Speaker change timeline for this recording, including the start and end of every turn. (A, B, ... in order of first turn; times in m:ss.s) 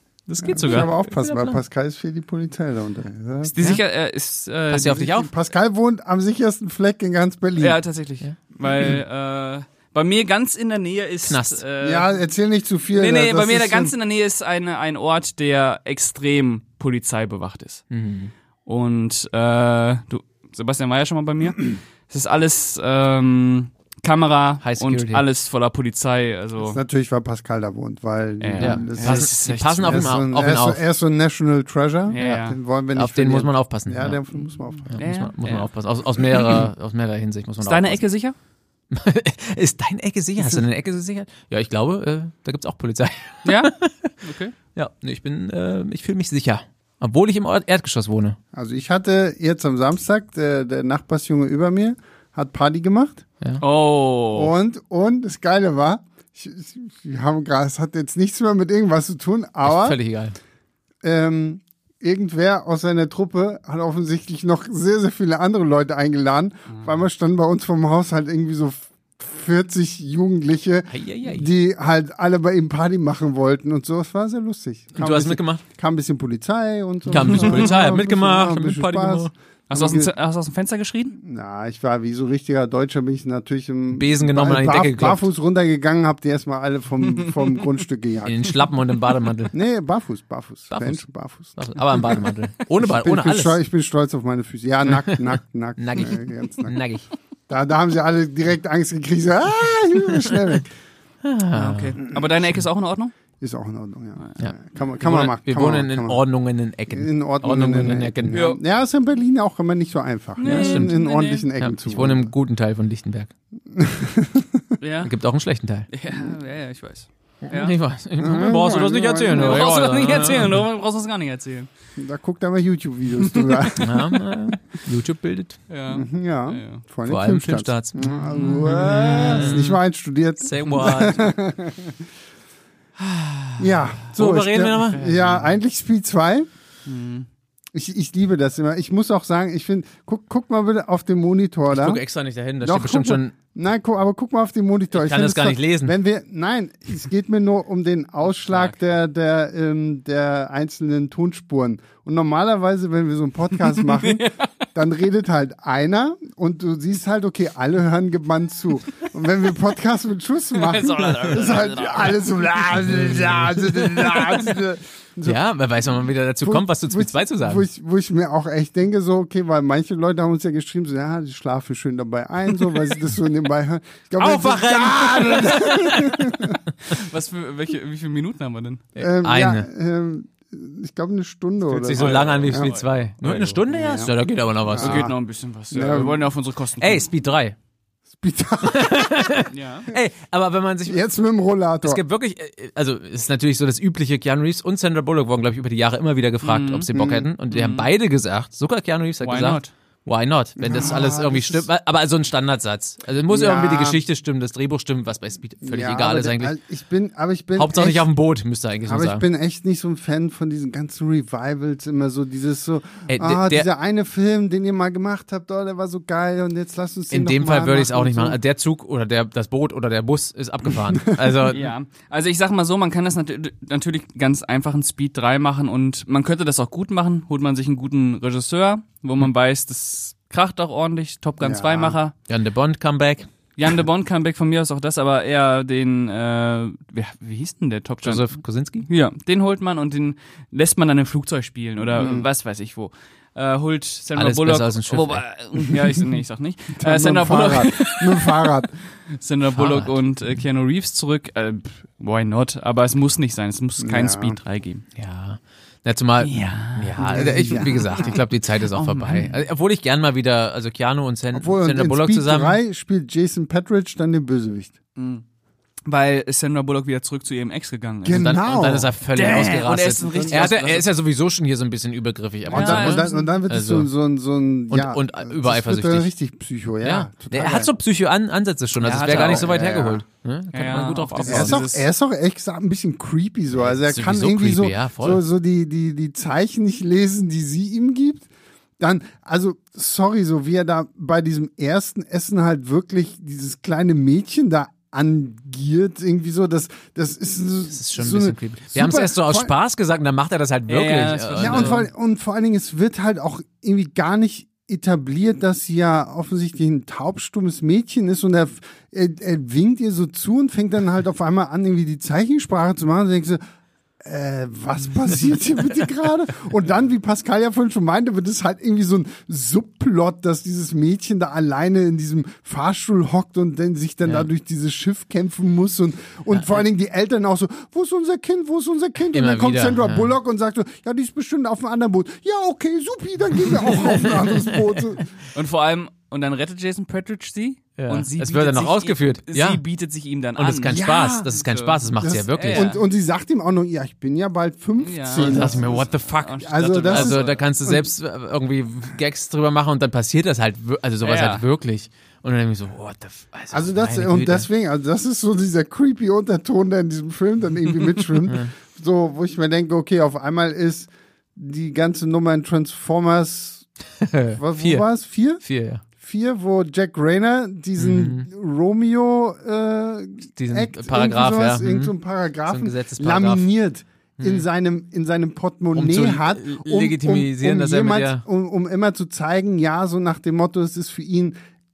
0:00.3-0:01.6 A
0:00.4-0:00.9 B
0:00.4-0:03.6 C
0:03.5-0:05.1 B
0:04.7-0:05.3 A
0:04.9-0:07.8 C
0:07.6-0:12.1 B
0:11.2-0:11.6 A
0:11.8-0:13.9 C
0:12.9-0:17.8 B
0:17.9-0:18.3 A
0:18.6-0:26.8 B
0:24.6-0:25.2 A
0:26.7-0:35.0 C
0:28.4-0:30.1 B
0:28.6-0:30.8 A
0:32.1-0:32.6 B
0:32.2-0:34.2 A
0:34.9-0:38.0 A
0:35.0-0:35.7 B
0:37.6-0:38.4 B
0:38.9-0:44.1 A
0:43.4-0:44.5 B
0:44.7-0:48.4 A
0:48.5-0:53.2 C
0:53.6-0:54.5 B
0:54.3-1:00.0 C
0:59.6-1:00.4 A
1:01.0-1:20.1 C
1:10.9-1:11.5 A
1:15.0-1:15.6 A
1:17.1-1:19.3 A
1:19.7-1:21.2 B
1:21.2-1:28.6 C
1:23.9-1:25.2 A
1:28.2-1:29.5 A
1:29.5-1:36.8 C
1:30.7-1:33.6 A
1:34.9-1:35.2 A
1:35.8-1:37.0 A
1:37.5-1:40.7 C
1:41.2-1:42.0 A
1:41.5-1:43.1 B
1:43.4-1:46.2 C
1:44.4-1:48.4 A
1:46.9-1:52.3 C
1:48.3-1:48.6 B
1:50.4-1:51.5 B
1:50.4-1:51.0 A
1:51.6-1:53.3 A
1:53.7-1:54.6 C
1:54.8-1:55.1 B
1:55.0-1:55.9 A
1:55.9-1:57.7 B
1:57.5-2:00.6 A
1:58.2-1:59.6 C
1:59.3-2:01.7 B
2:02.0-2:04.1 C
2:03.3-2:03.6 B
2:03.8-2:05.6 A
2:05.7-2:06.8 B
2:05.9-2:12.0 C
2:07.0-2:09.8 A
2:08.3-2:09.5 B
2:10.4-2:11.3 A
2:13.1-2:13.5 B
2:13.6-2:16.5 C
2:14.1-2:15.4 A
2:16.8-2:17.3 B
2:17.7-2:22.0 C
2:21.7-2:23.3 A
2:22.6-2:45.4 C
2:24.9-2:25.9 A
2:33.8-2:34.4 B
2:40.5-2:42.7 B
2:42.8-2:43.6 A
2:44.0-2:44.4 B
2:45.2-2:47.6 A
2:46.4-2:56.6 C
2:54.2-2:56.5 A
2:56.9-2:58.8 B
2:59.0-2:59.7 A
2:59.0-3:02.7 C
3:01.7-3:05.1 A
3:01.9-3:03.5 B
3:03.6-3:04.1 C
3:04.6-3:05.1 C
3:04.8-3:07.1 B
3:05.7-3:06.2 C
3:06.8-3:07.5 A
3:08.1-3:09.3 C
3:08.6-3:11.0 A
3:09.5-3:09.9 B
3:10.9-3:12.0 C
3:11.8-3:26.5 A
3:16.4-3:16.9 B
3:16.9-3:17.3 C
3:17.5-3:17.9 B
3:19.2-3:19.7 B
3:20.6-3:21.7 C
3:23.3-3:24.0 C
3:25.6-3:28.1 C
3:27.6-3:29.2 A
3:28.8-3:38.4 C
3:33.1-3:33.7 A
3:37.1-3:41.7 A
3:40.9-3:41.2 C
3:41.4-3:52.1 B
3:51.4-3:52.0 C
3:52.3-3:53.3 A
3:53.6-3:58.3 B
3:58.0-3:58.9 A
3:58.8-4:08.5 B
4:02.0-4:02.3 C
4:04.1-4:05.2 A
4:06.8-4:08.7 C
4:09.1-4:14.8 B
4:09.5-4:09.9 A
4:13.8-4:14.4 C
4:15.0-4:22.6 A
4:16.2-4:18.2 B
4:17.0-4:18.2 C
4:18.7-4:19.4 B
4:21.3-4:24.7 C
4:25.0-4:25.2 B
4:25.8-4:28.4 B
4:28.0-4:30.4 C
4:28.1-4:33.9 A
4:29.1-4:30.9 B
4:32.5-4:37.7 C
4:32.5-4:33.3 B
4:34.7-4:36.1 A
4:36.8-4:41.6 A
4:38.8-4:39.5 B
4:39.0-4:40.0 C
4:40.5-4:41.9 B
4:41.2-4:59.5 C
4:43.5-4:45.2 A
4:57.7-5:01.8 A
5:00.7-5:01.8 B
5:01.4-5:13.4 C
5:14.0-5:35.1 C
5:29.1-5:30.1 A
5:33.6-5:34.8 A
5:35.3-5:42.8 B
5:37.8-5:39.6 A
5:40.4-5:42.8 A
5:40.6-5:41.4 C
5:42.0-5:45.9 C
5:44.8-5:47.4 B
5:45.1-5:54.5 A
5:46.4-5:47.8 C
5:51.0-5:51.4 B
5:53.5-6:03.6 C
6:04.0-6:04.8 A
6:04.4-6:05.4 C
6:05.4-6:05.8 A
6:06.0-6:21.4 C
6:07.8-6:08.3 A
6:10.4-6:11.9 A
6:12.5-6:13.4 A
6:14.2-6:14.4 A
6:15.7-6:18.2 A